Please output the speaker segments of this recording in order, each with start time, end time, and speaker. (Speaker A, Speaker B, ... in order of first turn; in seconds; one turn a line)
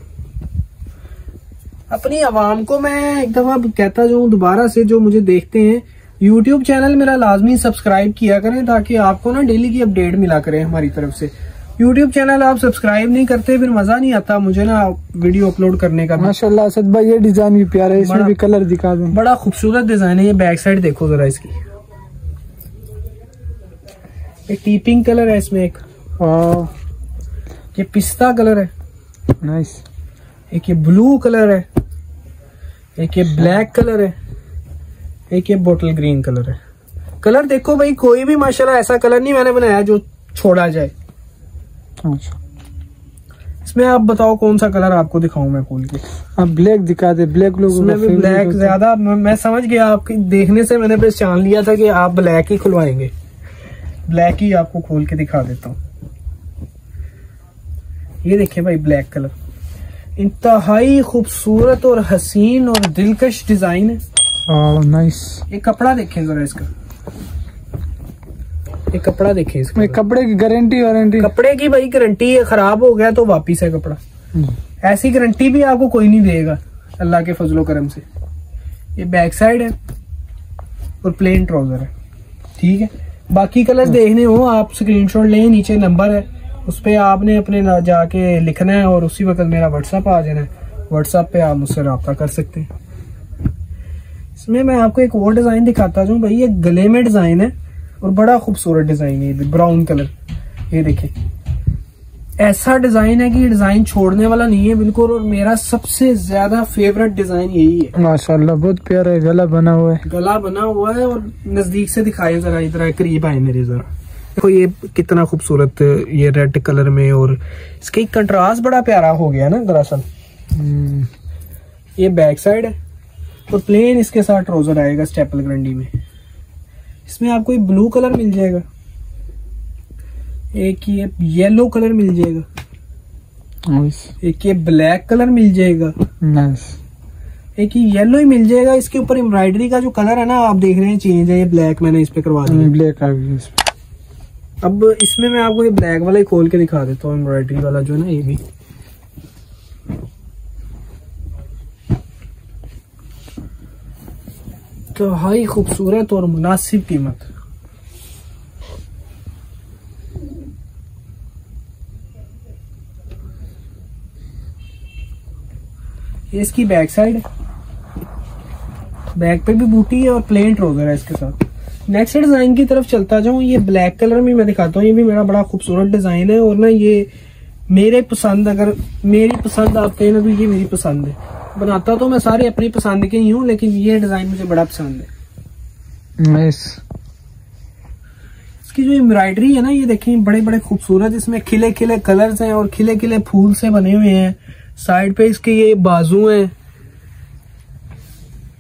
Speaker A: 1.9-16.4
Speaker B: 16.2-19.2
Speaker A: 18.0-18.4
Speaker A: 19.1-21.5
Speaker A: 24.5-25.8
Speaker B: 26.2-26.7
Speaker A: 27.8-28.7
Speaker B: 29.4-29.8
Speaker A: 30.5-31.7
Speaker A: 33.0-34.1
Speaker A: 35.3-36.6
Speaker A: 37.2-40.9
Speaker B: 42.0-42.4
Speaker A: 43.6-46.0
Speaker B: 46.4-48.8
Speaker A: 47.7-53.1
Speaker A: 54.1-55.8
Speaker A: 58.2-59.3
Speaker A: 60.2-64.0
Speaker B: 64.5-65.4
Speaker A: 65.5-66.7
Speaker A: 68.9-70.0
Speaker B: 69.8-71.3
Speaker A: 71.2-74.0
Speaker A: 74.8-78.0
Speaker A: 79.0-79.7
Speaker A: 81.0-81.9
Speaker A: 82.6-92.7
Speaker A: 94.4-100.1
Speaker A: 100.7-101.1
Speaker A: 102.4-107.9
Speaker B: 108.0-110.0
Speaker A: 110.0-120.0
Speaker B: 120.5-121.1
Speaker A: 122.0-122.8
Speaker A: 123.5-125.9
Speaker A: 127.1-128.6
Speaker A: 130.5-132.4
Speaker B: 133.7-134.1
Speaker A: 134.2-135.9
Speaker B: 136.2-136.8
Speaker A: 137.6-142.7
Speaker B: 142.5-143.6
Speaker A: 144.6-148.4
Speaker A: 154.9-157.3
Speaker A: 166.3-167.2
Speaker A: 169.2-177.1
Speaker A: 177.7-185.1
Speaker B: 186.2-186.8
Speaker A: 188.7-196.5